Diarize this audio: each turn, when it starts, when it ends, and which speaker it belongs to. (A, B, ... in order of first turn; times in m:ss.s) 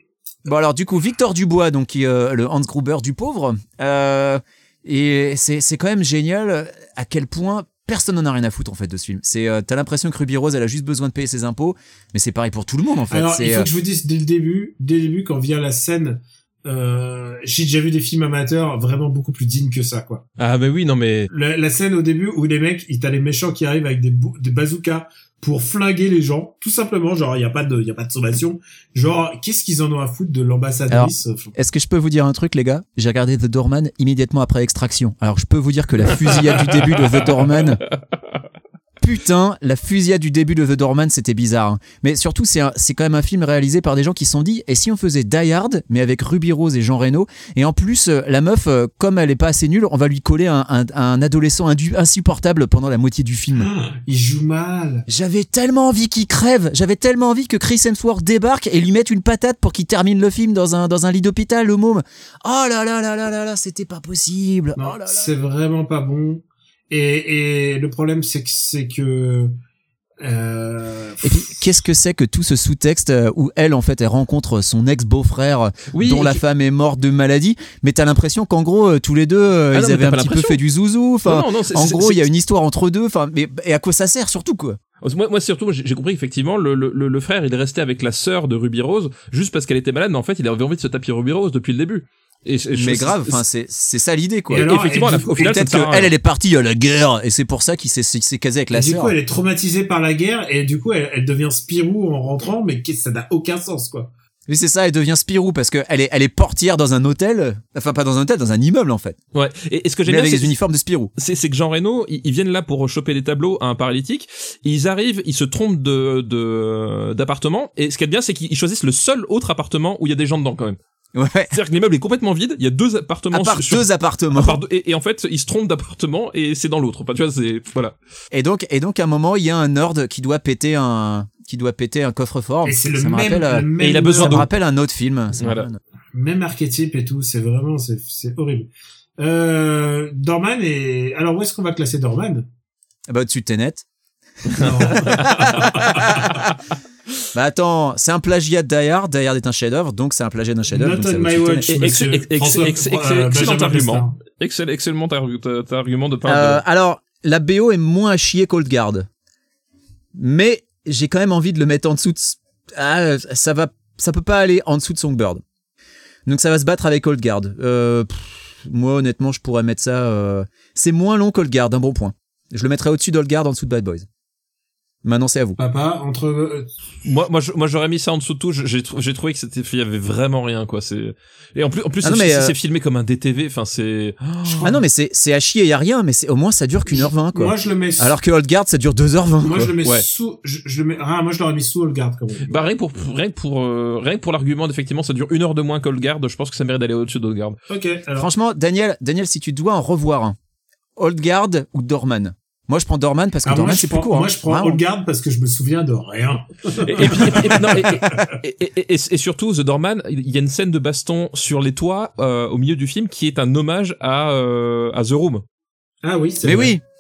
0:00.4-0:13.7 A
0:13.1-0:20.2 B
0:20.4-0:21.3 C
0:21.3-0:31.5 B
0:30.9-0:37.8 A
0:36.4-0:37.1 C
0:39.0-0:53.7 A
0:53.5-0:55.0 B
0:55.1-1:05.3 A
1:04.8-1:09.5 B
1:10.2-1:11.5 B
1:11.2-1:24.8 A
1:15.9-1:16.4 C
1:19.7-1:20.6 C
1:21.2-1:22.2 C
1:25.0-1:33.4 C
1:32.7-1:39.1 A
1:34.5-1:35.6 B
1:34.6-1:36.1 C
1:38.7-1:44.1 B
1:44.5-1:49.2 A
1:49.3-1:50.6 C
1:50.1-1:51.1 A
1:51.2-2:00.8 C
2:01.1-2:01.6 A
2:01.5-2:07.9 C
2:03.3-2:04.6 A
2:08.3-2:15.8 A
2:12.6-2:14.4 B
2:13.8-2:14.5 C
2:15.4-2:15.7 C
2:16.1-2:18.7 B
2:19.2-2:22.4 B
2:23.1-2:23.8 A
2:24.5-2:25.8 C
2:24.6-2:26.4 B
2:27.3-2:31.6 A
2:30.7-2:34.1 B
2:31.7-2:36.6 C
2:36.3-2:39.1 A
2:40.1-2:45.4 A
2:46.3-2:54.1 A
2:55.0-2:55.6 A
2:55.6-2:56.7 B
2:57.0-3:04.7 C
3:02.0-3:02.5 A
3:04.4-3:04.8 B
3:04.6-3:09.7 A
3:06.9-3:08.1 B
3:09.4-3:12.6 B
3:12.5-3:17.6 C
3:17.7-3:18.3 B
3:18.2-3:20.4 A
3:21.0-3:24.8 A
3:23.4-3:28.2 B
3:26.8-3:35.4 C
3:36.0-3:36.8 B
3:36.4-3:36.8 A